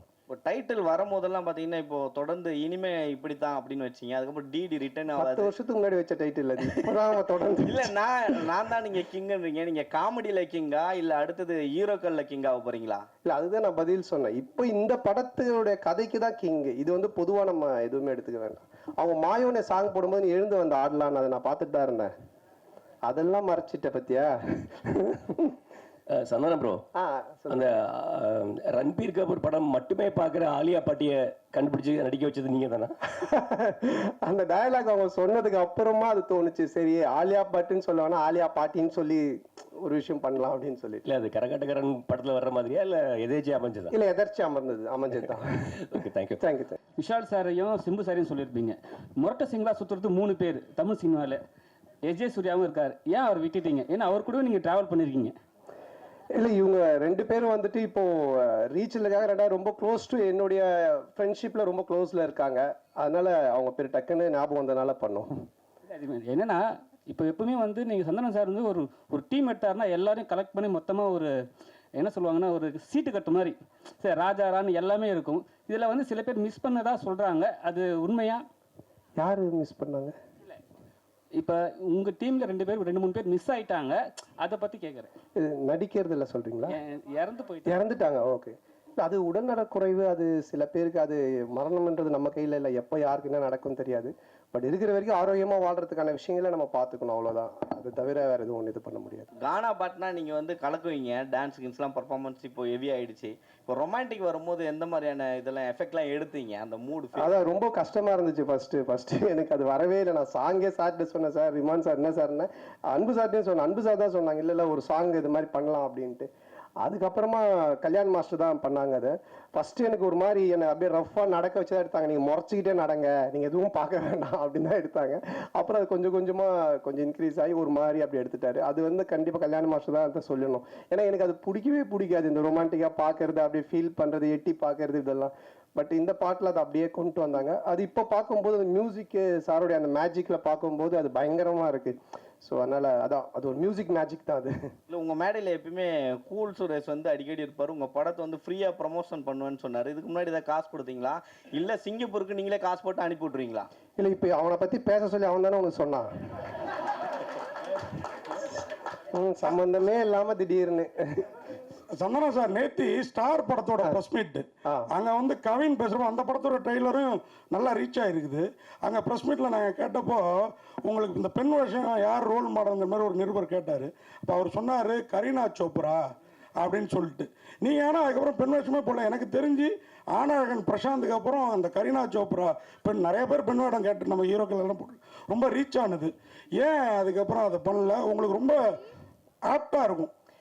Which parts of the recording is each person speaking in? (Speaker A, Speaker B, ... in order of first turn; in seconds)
Speaker A: 0.3-5.5, 7.6-13.1, 99.4-107.3, 144.9-153.7
Speaker B: 5.1-7.9, 13.2-22.1, 23.1-25.6, 26.9-27.7, 33.1-41.0, 43.9-45.7, 46.4-46.8, 56.3-65.5, 79.2-80.1, 85.3-86.8, 87.7-99.3, 107.1-116.3, 116.8-144.7, 154.0-156.1, 159.1-161.3
Speaker C: 26.2-26.8, 27.5-32.9, 41.0-43.9, 45.9-46.4
Speaker D: 47.0-51.4, 52.0-55.3, 65.9-71.3, 71.9-78.4, 81.3-85.1, 86.7-87.8
Speaker E: 162.0-176.0, 176.6-188.8, 189.5-190.1